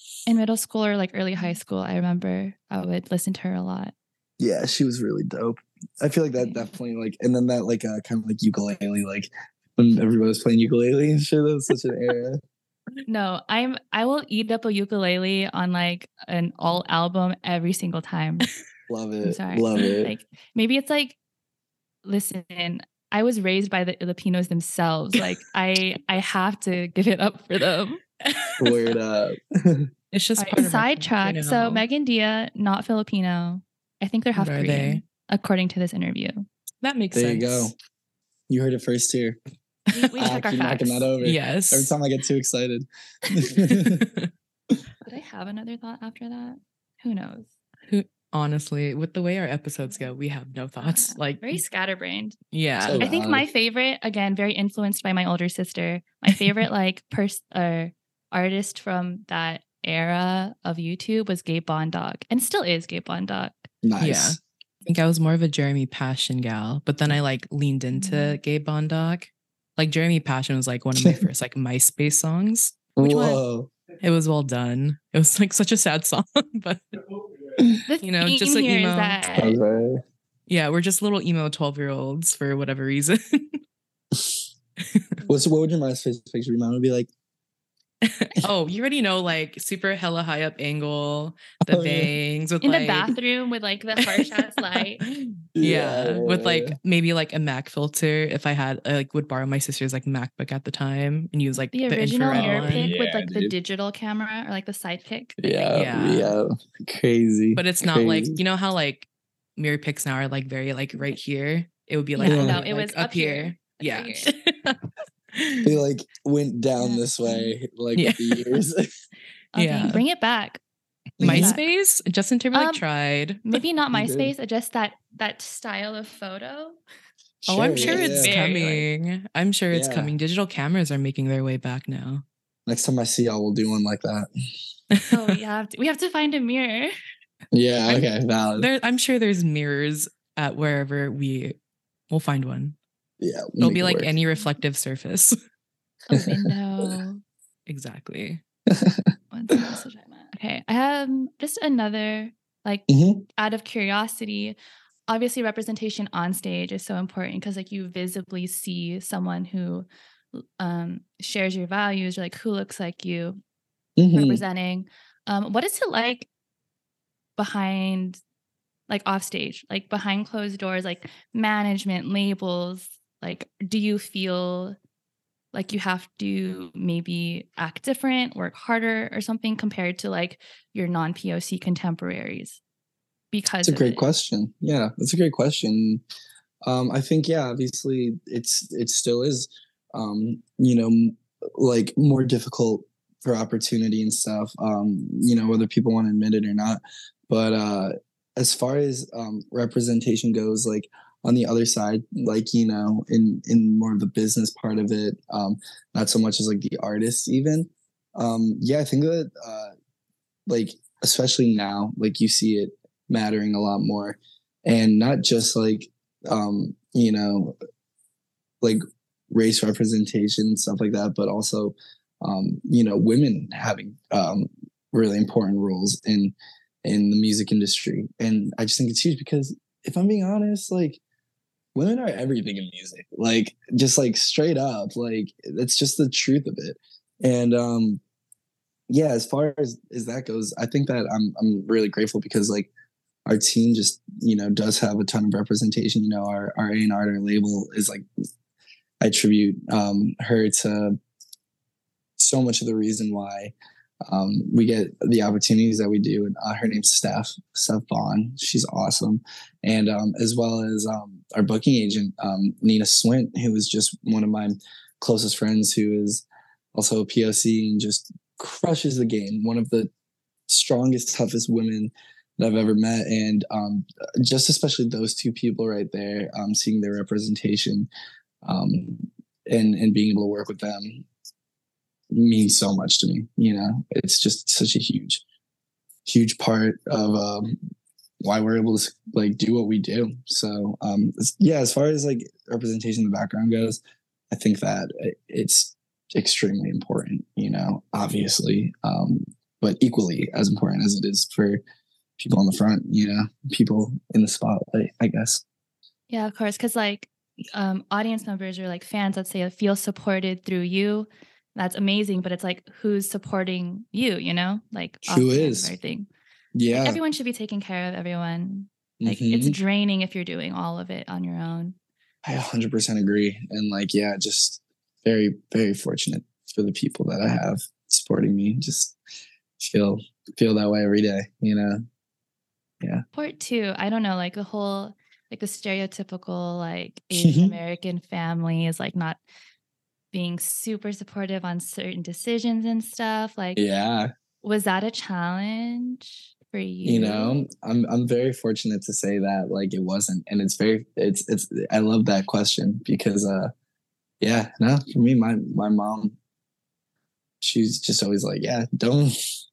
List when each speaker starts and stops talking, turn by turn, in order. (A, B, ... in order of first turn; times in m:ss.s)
0:00.3-0:03.9 A
0:04.4-0:12.4 B
0:06.4-0:06.7 A
0:13.1-0:18.5 A
0:18.9-0:20.1 B
0:19.2-0:21.2 A
0:22.0-0:28.0 A
0:28.2-0:28.9 C
0:28.6-0:29.9 B
0:30.1-0:31.8 C
0:30.4-0:36.5 A
0:34.3-0:35.0 C
0:36.8-0:37.7 C
0:37.1-0:37.7 B
0:38.5-0:39.4 B
0:39.9-0:41.1 A
0:40.0-0:40.2 C
0:40.2-0:44.0 B
0:41.2-0:42.0 C
0:43.7-0:44.3 C
0:45.1-0:47.5 A
0:47.9-0:51.6 C
0:50.8-0:52.4 A
0:52.5-0:53.0 C
0:52.8-0:53.5 B
0:53.0-1:03.7 A
1:03.8-1:04.4 B
1:04.0-1:12.9 C
1:07.9-1:08.4 A
1:13.0-1:13.7 B
1:13.0-1:13.4 A
1:14.0-1:17.0 C
1:17.9-1:19.6 A
1:18.0-1:19.2 C
1:19.4-1:20.0 B
1:20.5-1:23.6 C
1:24.8-1:25.2 C
1:25.3-1:27.1 B
1:28.0-1:33.2 C
1:31.7-1:32.2 B
1:32.6-1:35.0 A
1:34.0-1:42.9 C
1:35.6-1:36.8 B
1:41.7-1:45.4 A
1:42.3-1:43.5 B
1:45.4-1:48.4 B
1:45.7-1:46.4 C
1:47.6-1:54.8 C
1:52.2-1:54.3 A
1:52.2-1:52.6 B
1:55.3-1:55.7 C
1:55.6-1:59.0 B
1:56.8-1:57.5 A
1:58.0-1:58.6 C
1:59.5-2:00.6 A
1:59.6-2:00.0 C
2:01.2-2:01.6 B
2:01.2-2:01.6 A
2:01.2-2:03.6 C
2:02.5-2:02.8 A
2:03.4-2:06.8 A
2:03.9-2:04.3 B
2:07.4-2:08.3 B
2:07.5-2:12.2 C
2:07.8-2:08.9 A
2:09.7-2:10.1 B
2:12.6-2:14.3 B
2:14.9-2:15.4 C
2:15.1-2:16.9 A
2:17.5-2:18.7 B
2:17.8-2:21.6 C
2:22.1-2:22.8 C
2:23.2-2:24.1 B
2:23.6-2:25.4 C
2:26.1-2:27.2 A
2:26.1-2:26.5 B
2:27.7-2:28.4 C
2:28.7-2:29.1 B
2:29.3-2:32.8 A
2:32.9-2:33.2 B
2:33.4-2:34.6 A
2:35.1-2:43.4 A
2:44.0-2:44.4 B
2:44.1-2:46.3 A
2:47.4-2:48.2 A
2:48.9-2:54.8 A
2:55.5-3:02.6 A
3:03.3-3:04.1 A
3:03.6-3:06.0 B
3:06.6-3:29.7 B
3:30.5-3:37.6 B
3:39.3-3:51.0 B
3:51.7-3:58.0 B
3:58.9-4:02.7 B
4:03.3-4:08.0 B
4:09.0-4:11.0 B
4:12.2-4:13.5 B
4:14.0-4:29.9 B
4:30.5-4:37.9 B
4:38.4-4:41.0 B
4:42.1-4:45.2 B
4:46.0-4:47.6 B
4:48.2-4:53.8 B
4:54.3-5:01.6 B
5:02.2-5:05.4 B
5:06.1-5:16.1 A
5:15.1-5:15.7 B
5:16.5-5:17.0 B
5:16.7-5:21.8 A
5:19.0-5:19.6 B
5:22.2-5:29.0 B
5:29.6-5:31.8 B
5:33.1-5:39.2 A
5:37.1-5:37.6 B
5:40.1-5:43.6 A
5:43.6-5:44.1 B
5:44.4-5:47.4 A
5:46.8-5:53.5 B
5:54.2-5:56.2 B
5:57.4-5:59.2 B